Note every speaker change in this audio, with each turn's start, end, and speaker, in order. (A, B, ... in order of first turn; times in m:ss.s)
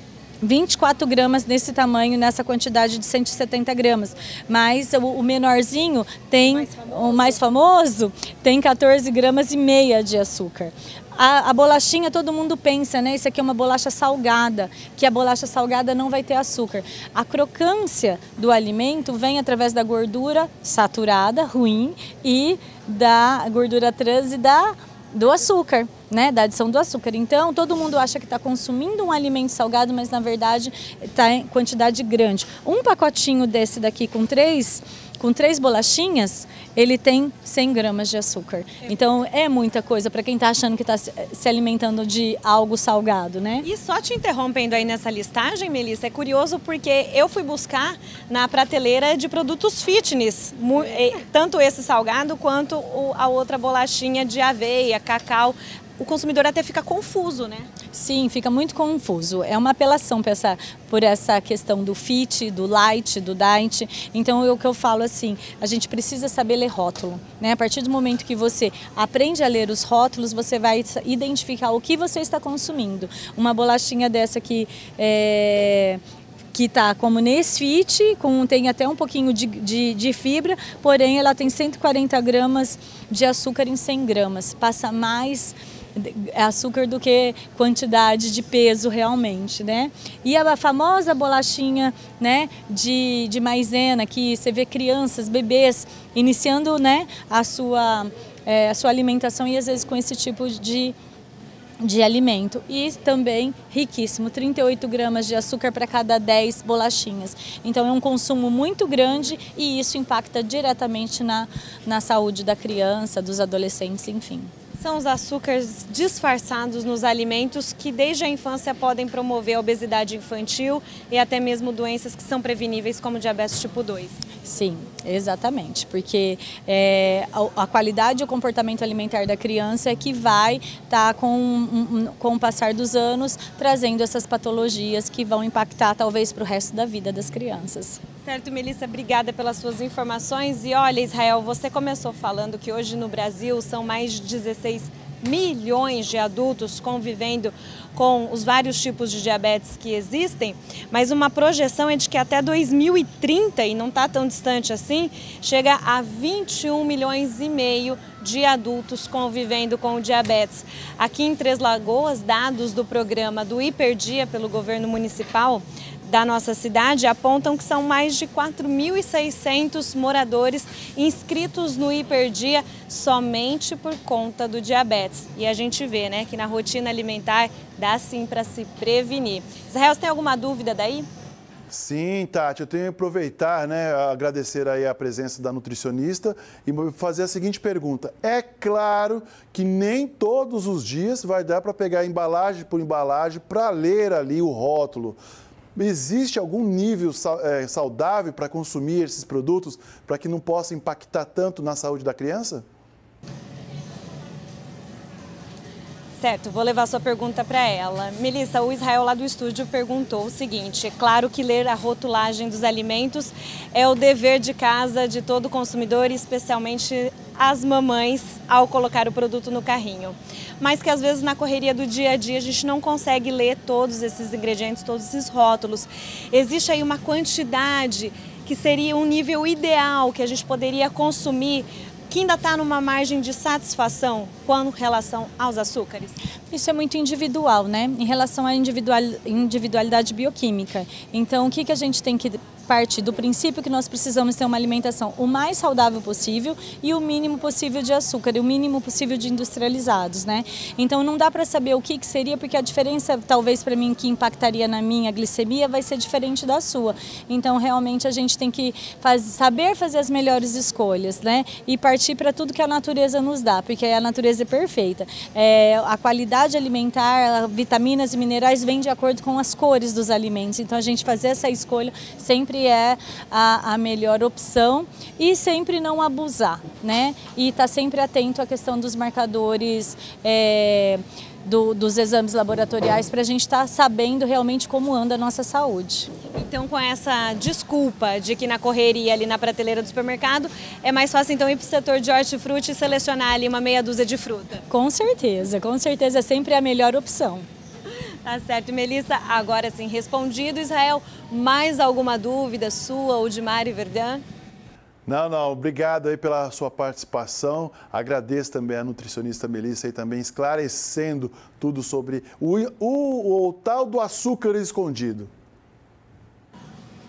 0:00.4-0:43.7 A
0:06.6-0:07.4 B
0:43.6-0:57.7 B
0:57.9-1:16.0 A
1:16.5-1:40.9 A
1:41.8-1:54.5 A
1:54.8-2:04.2 B
2:04.4-2:18.0 A
2:18.2-3:01.1 B
3:01.7-3:15.2 C
3:15.7-3:22.6 C
3:26.2-3:56.2 B
3:56.5-4:46.1 A
4:46.3-4:54.6 B
4:54.7-4:57.5 A
4:57.9-5:04.2 B
5:05.0-5:15.3 C